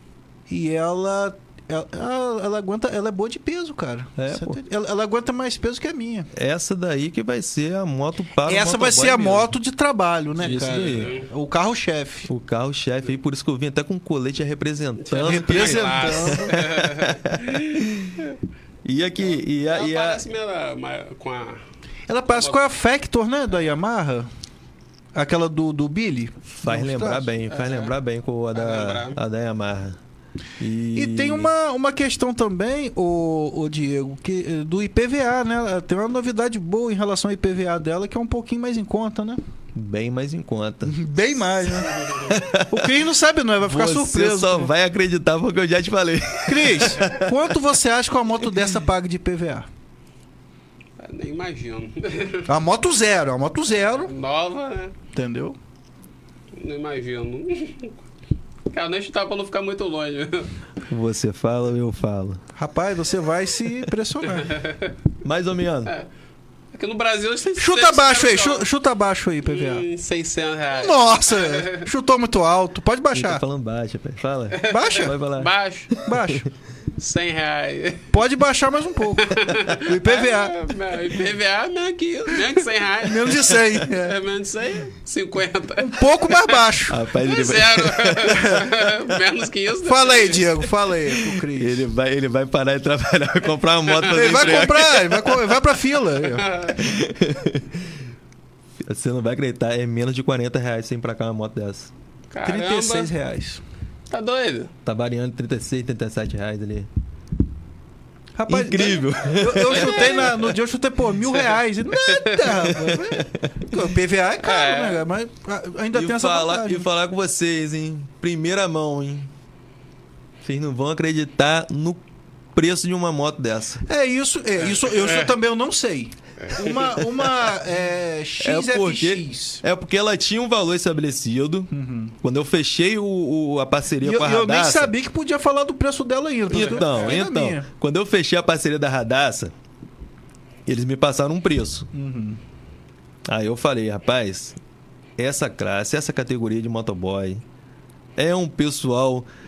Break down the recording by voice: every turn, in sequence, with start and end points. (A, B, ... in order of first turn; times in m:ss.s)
0:00.5-0:06.3 A
0:04.2-0:04.6 B
0:06.3-0:09.5 B
0:08.4-0:12.3 A
0:10.4-0:11.1 B
0:10.7-0:11.2 C
0:12.3-0:18.2 B
0:15.0-0:18.4 C
0:15.2-0:16.6 A
0:18.8-0:20.2 B
0:19.2-0:21.6 C
0:22.1-0:24.3 A
0:22.3-0:22.6 C
0:25.1-0:27.3 A
0:26.5-0:30.0 B
0:27.5-0:27.9 C
0:28.5-0:29.2 C
0:30.6-0:31.5 B
0:30.9-0:39.4 A
0:39.7-0:41.0 B
0:40.8-0:44.7 A
0:42.2-0:42.9 B
0:43.6-0:47.5 B
0:46.4-0:49.7 A
0:51.0-0:52.5 C
0:52.5-0:54.1 A
0:54.0-0:54.9 C
0:55.1-0:55.5 A
0:56.5-0:58.0 C
0:58.7-1:00.5 C
1:00.9-1:02.4 B
1:02.6-1:04.6 A
1:04.4-1:04.9 C
1:05.2-1:05.9 B
1:06.7-1:08.6 C
1:07.6-1:09.8 A
1:09.4-1:11.8 C
1:10.7-1:13.4 A
1:13.1-1:16.3 B
1:14.6-1:16.0 C
1:14.7-1:15.2 A
1:16.0-1:16.5 A
1:17.0-1:18.0 C
1:18.1-1:20.6 A
1:19.2-1:26.6 C
1:23.0-1:24.2 A
1:25.8-1:27.0 A
1:26.9-1:29.1 B
1:27.2-1:30.6 C
1:28.3-1:28.6 A
1:29.8-1:31.9 A
1:31.5-1:35.6 B
1:33.9-1:34.6 C
1:34.1-1:36.5 A
1:36.2-1:36.8 C
1:36.7-1:37.9 B
1:38.8-1:41.9 B
1:42.3-1:43.1 C
1:42.4-1:43.6 A
1:44.1-1:44.7 C
1:44.8-1:46.9 B
1:48.3-1:56.9 A
1:48.5-1:50.5 B
1:49.7-1:50.3 C
1:51.3-1:52.5 C
1:52.7-1:53.8 B
1:54.4-1:55.0 C
1:55.9-1:59.3 B
2:00.4-2:02.0 B
2:02.5-2:03.8 B
2:03.8-2:09.6 A
2:04.9-2:05.3 C
2:06.4-2:07.0 C
2:08.4-2:11.7 B
2:11.7-2:12.2 A
2:12.2-2:14.9 B
2:14.0-2:17.7 A
2:16.5-2:19.5 B
2:16.5-2:17.2 C
2:20.6-2:21.9 B
2:21.9-2:22.4 A
2:23.3-2:24.6 B
2:25.2-2:27.4 B
2:28.2-2:29.3 B